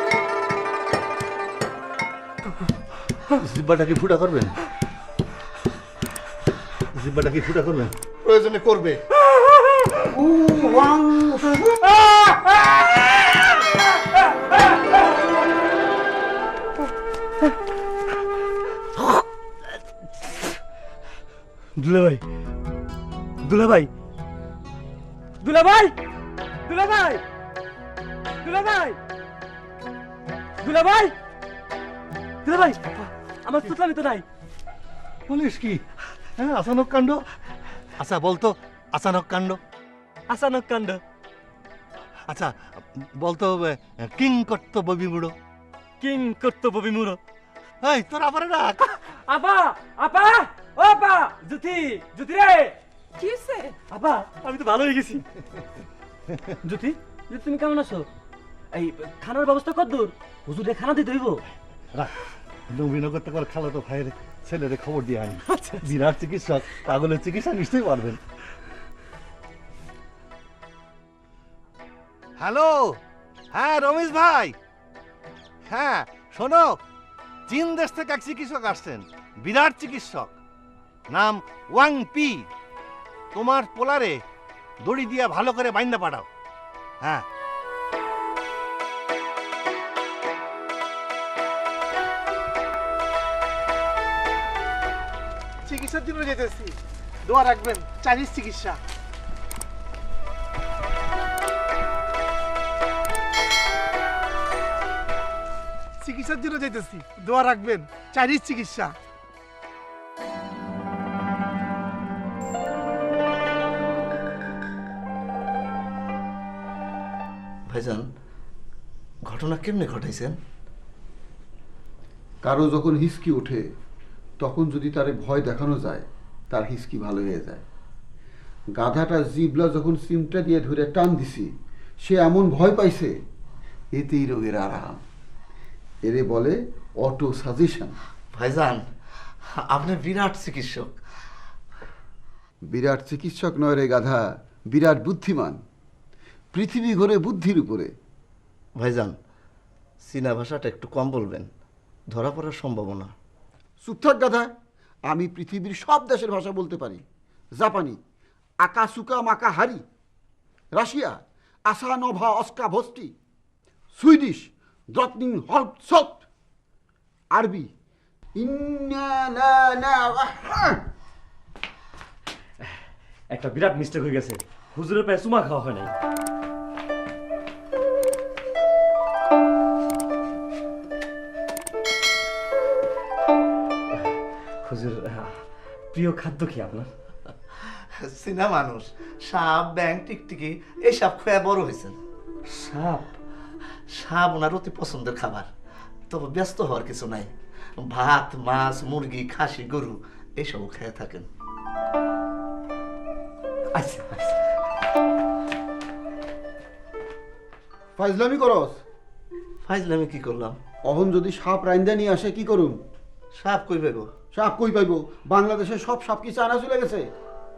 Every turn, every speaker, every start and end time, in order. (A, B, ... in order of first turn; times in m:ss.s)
0:03.4-0:04.6 A
0:06.9-0:07.9 A
0:08.2-0:09.0 B
0:10.1-0:11.3 C
0:21.8-0:22.2 D
0:23.4-0:23.9 D
0:25.4-0:26.0 D
0:26.6-0:27.2 D
0:28.4-0:29.0 D
0:30.6-0:31.2 D
0:32.4-0:34.2 D
0:35.3-0:35.8 A
0:36.4-0:37.2 A
0:38.0-0:39.6 A
0:40.3-0:41.0 D
0:42.3-0:45.3 A
0:46.0-0:47.2 D
0:47.8-0:49.1 A
0:49.2-0:55.2 D
0:56.6-0:58.1 D
0:58.7-1:01.4 D
1:02.7-1:08.2 A
1:05.5-1:05.8 D
1:12.4-1:13.0 A
1:13.5-1:14.6 A
1:15.7-1:16.8 A
1:17.5-1:20.4 A
1:21.1-1:22.5 A
1:23.3-1:24.2 A
1:24.8-1:26.2 A
1:35.7-1:38.8 E
1:46.0-1:48.9 E
1:57.7-1:58.1 B
1:59.2-2:00.4 B
2:02.4-2:03.6 C
2:04.4-2:07.6 C
2:08.8-2:11.5 C
2:12.0-2:13.1 C
2:13.9-2:15.0 C
2:16.0-2:17.9 C
2:18.3-2:18.8 B
2:19.6-2:21.0 B
2:22.7-2:25.6 C
2:26.5-2:27.9 C
2:28.8-2:29.1 B
2:30.0-2:31.5 B
2:32.1-2:33.1 B
2:33.8-2:34.5 C
2:35.1-2:37.0 C
2:37.6-2:38.0 C
2:38.6-2:39.8 C
2:40.8-2:43.1 C
2:43.9-2:46.2 C
2:47.3-2:47.7 C
2:48.4-2:50.8 C
2:53.3-2:55.9 D
3:04.7-3:05.4 D
3:05.9-3:06.9 D
3:08.0-3:12.0 B
3:12.5-3:13.0 D
3:13.9-3:15.5 B
3:16.1-3:21.3 B
3:23.7-3:24.3 D
3:28.0-3:28.8 C
3:29.6-3:30.6 B
3:30.9-3:32.8 C
3:33.4-3:34.1 B
3:34.3-3:37.0 C